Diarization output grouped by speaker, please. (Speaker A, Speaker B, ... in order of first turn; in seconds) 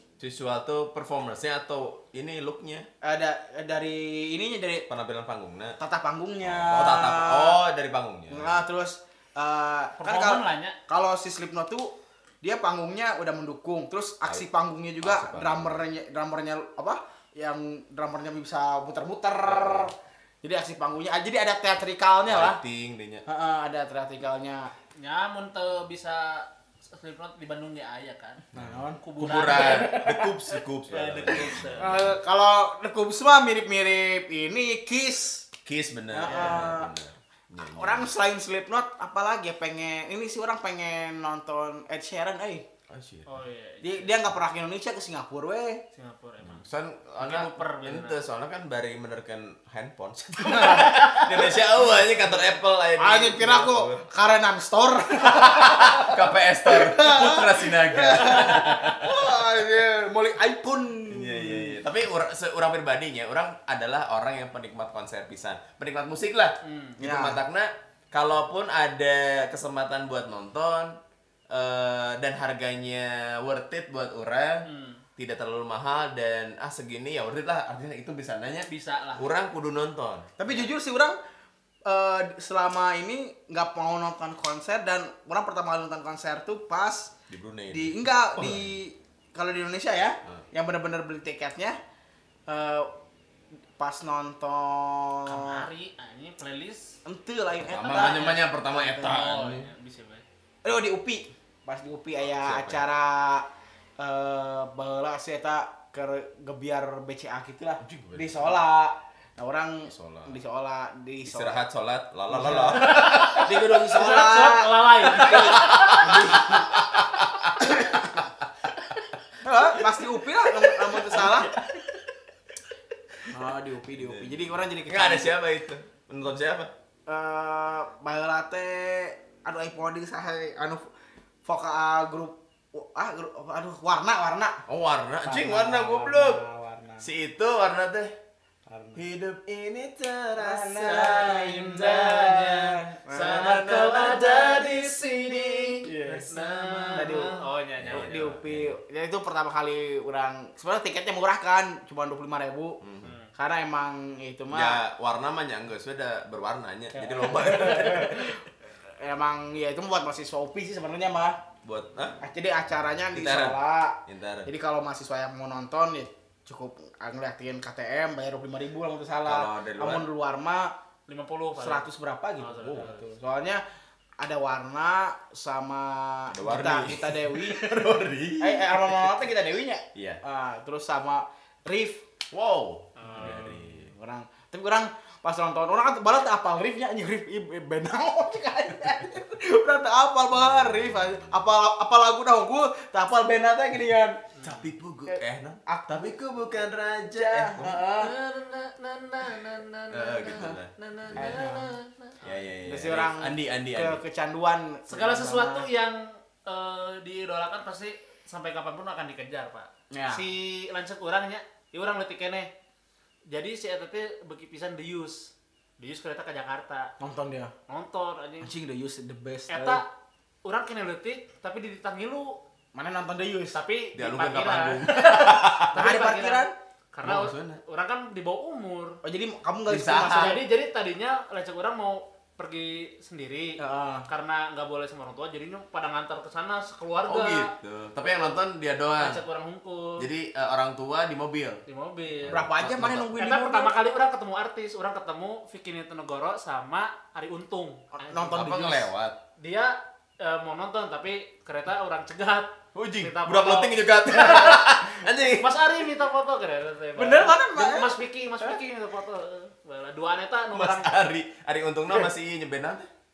Speaker A: 0.2-2.9, 4.9-5.8, 6.4-8.6, 15.0-15.8, 19.5-19.9, 22.3-23.2, 28.5-32.0, 35.6-38.1, 42.9-43.3, 46.4-54.0, 55.2-59.3, 61.1-70.9, 71.5-74.7, 75.2-80.7, 87.3-88.8, 97.7-99.7, 102.2-102.8, 107.8-108.6, 109.9-110.4, 111.2-113.5, 115.2-122.1, 124.0-126.7, 134.7-136.4, 137.0-138.1, 138.9-148.7, 152.8-153.2, 154.5-158.4, 161.6-162.2, 163.1-164.5, 169.2-170.1, 176.3-179.3, 179.9-180.2, 182.3-183.9, 190.3-191.4, 194.4-197.8, 199.9-201.4, 202.2-204.0, 223.9-225.9, 227.0-227.6, 229.7-230.4, 237.1-239.2, 240.0-241.6, 242.2-243.1, 248.3-249.2, 252.7-255.9, 260.5-262.9
Speaker B: 3.0-4.8, 5.8-7.6, 8.3-22.6, 23.2-24.7, 28.5-30.3, 31.8-35.5, 36.1-36.9, 37.8-42.6, 43.8-45.8, 50.4-52.1, 53.0-61.8, 67.0-67.4, 80.4-81.2, 81.8-87.1, 87.7-91.8, 92.5-92.9, 93.8-95.7, 97.0-99.1, 100.6-103.4, 104.0-111.6, 112.3-116.8, 117.6-118.1, 119.4-121.5, 123.3-125.3, 127.1-130.8, 131.4-134.6, 135.2-137.1, 138.7-139.0, 140.3-143.6, 145.8-146.3, 146.9-147.3, 147.9-152.8, 153.3-154.8, 156.9-158.4, 159.0-161.4, 162.2-170.7, 171.6-173.6, 174.2-177.7, 178.4-182.0, 183.1-194.2, 195.1-196.2, 197.2-198.1, 201.2-201.7, 202.6-205.7, 209.9-210.2, 217.0-217.5, 218.4-219.8, 222.7-223.6, 225.7-226.5, 229.0-230.4, 233.6-234.1, 242.3-243.7, 247.9-248.9, 256.9-258.6
Speaker C: 10.0-10.8, 25.0-28.4, 29.0-30.1, 30.9-32.0, 36.2-36.7, 43.3-44.3, 45.9-46.7, 47.2-48.2, 66.6-67.0, 74.6-75.0, 78.7-79.3, 95.2-97.0, 97.7-98.4, 99.0-100.2, 112.7-116.4, 141.8-142.2, 143.1-145.7, 146.3-148.2, 153.0-153.3, 171.1-171.8, 172.4-173.1, 182.9-183.6, 194.3-194.7, 197.9-202.4, 204.9-212.5, 213.3-216.9, 217.7-218.5, 219.5-219.9, 220.4-222.4, 223.5-229.0, 230.1-238.4, 239.0-240.1, 241.7-242.5, 243.1-248.3, 249.4-260.9